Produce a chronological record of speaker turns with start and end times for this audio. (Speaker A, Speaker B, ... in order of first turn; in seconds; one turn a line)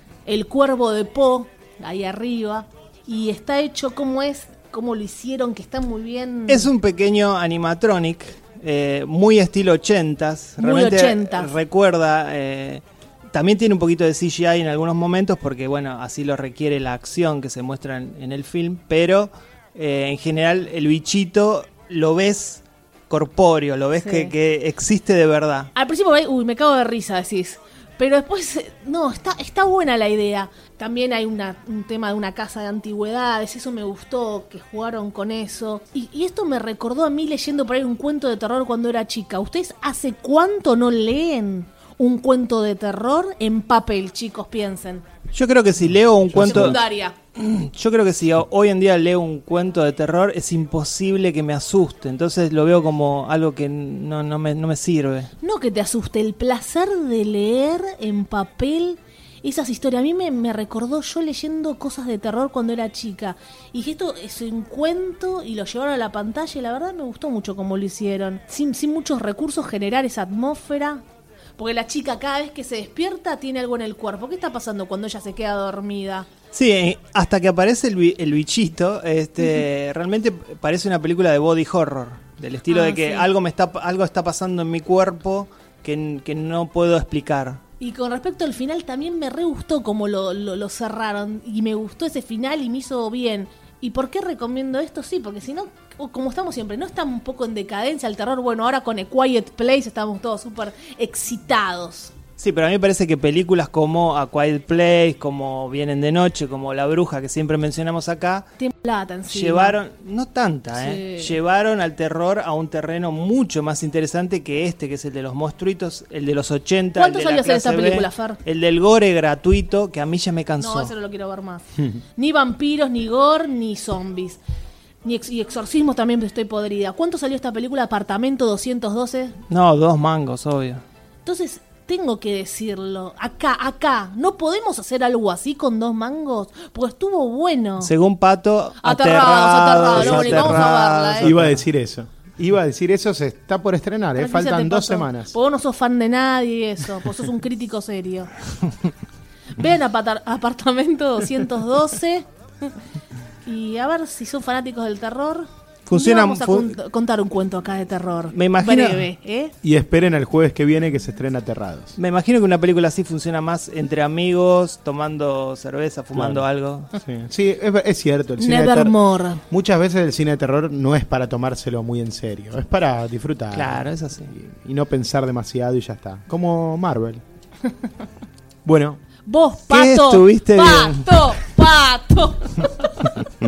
Speaker A: 0.3-6.7
Speaker B: 6.5-25.7
Speaker A: 10.6-11.5
Speaker A: 24.0-24.3
Speaker A: 25.8-45.0
Speaker B: 45.3-46.8
Speaker C: 46.3-46.8
Speaker A: 46.4-47.2
Speaker B: 47.4-55.3
Speaker A: 55.4-71.0
Speaker A: 71.6-76.3
Speaker B: 76.5-87.6
Speaker A: 82.7-83.3
Speaker A: 87.8-102.1
Speaker B: 102.4-108.5
Speaker A: 108.6-109.8
Speaker B: 109.3-120.9
Speaker A: 110.7-111.4
Speaker A: 117.0-118.4
Speaker A: 120.6-124.4
Speaker A: 125.0-129.4
Speaker B: 129.5-130.8
Speaker A: 131.2-137.9
Speaker B: 137.8-141.6
Speaker A: 138.8-141.3
Speaker C: 139.9-145.3
Speaker A: 144.2-148.3
Speaker A: 149.6-152.7
Speaker A: 153.4-159.5
Speaker B: 155.9-156.8
Speaker B: 158.3-159.1
Speaker C: 159.6-162.0
Speaker B: 162.0-166.9
Speaker C: 166.1-166.4
Speaker C: 166.9-169.0
Speaker A: 168.4-169.4
Speaker C: 169.5-177.2
Speaker B: 173.5-174.3
Speaker C: 178.7-179.0
Speaker A: 179.3-183.2
Speaker B: 179.7-181.3